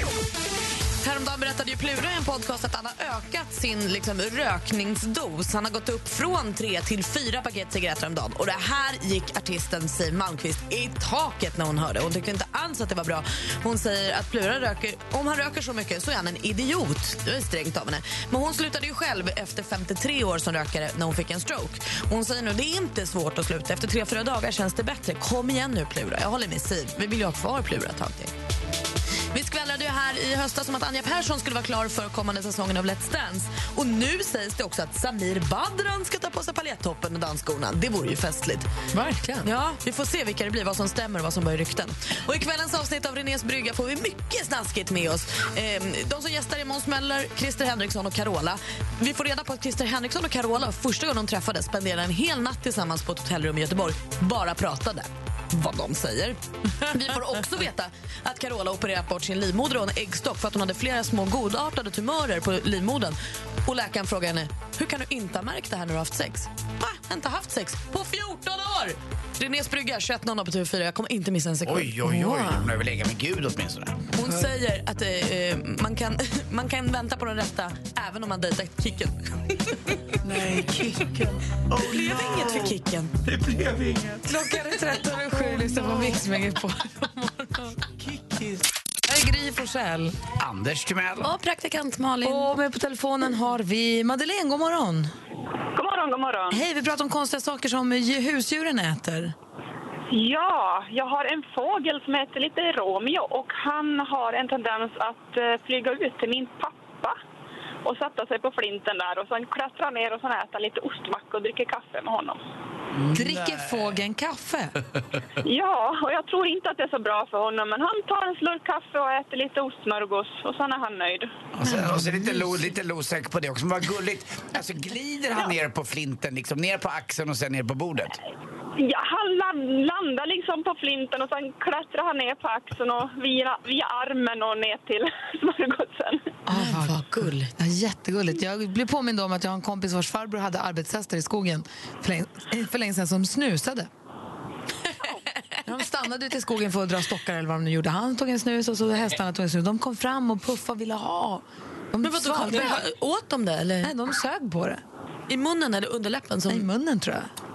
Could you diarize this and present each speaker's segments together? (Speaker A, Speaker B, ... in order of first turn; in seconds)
Speaker A: 1.0-28.3, 29.3-38.7, 39.4-71.9, 74.1-79.7, 81.7-83.1, 91.2-92.5, 136.5-137.5, 152.0-153.9, 155.3-156.7
Speaker B: 38.9-39.5, 72.1-72.6, 84.2-87.8, 89.1-90.2, 92.2-95.1, 96.5-99.3, 113.1-114.7, 121.6-122.5, 136.4-143.9, 145.6-152.8, 153.8-154.8, 156.5-157.3
Speaker C: 71.6-74.0, 80.6-81.1, 81.8-82.6, 90.4-91.3, 112.9-114.0, 121.5-128.2
Speaker D: 95.8-96.6, 100.1-107.2, 107.8-112.4, 115.4-121.3, 128.8-136.3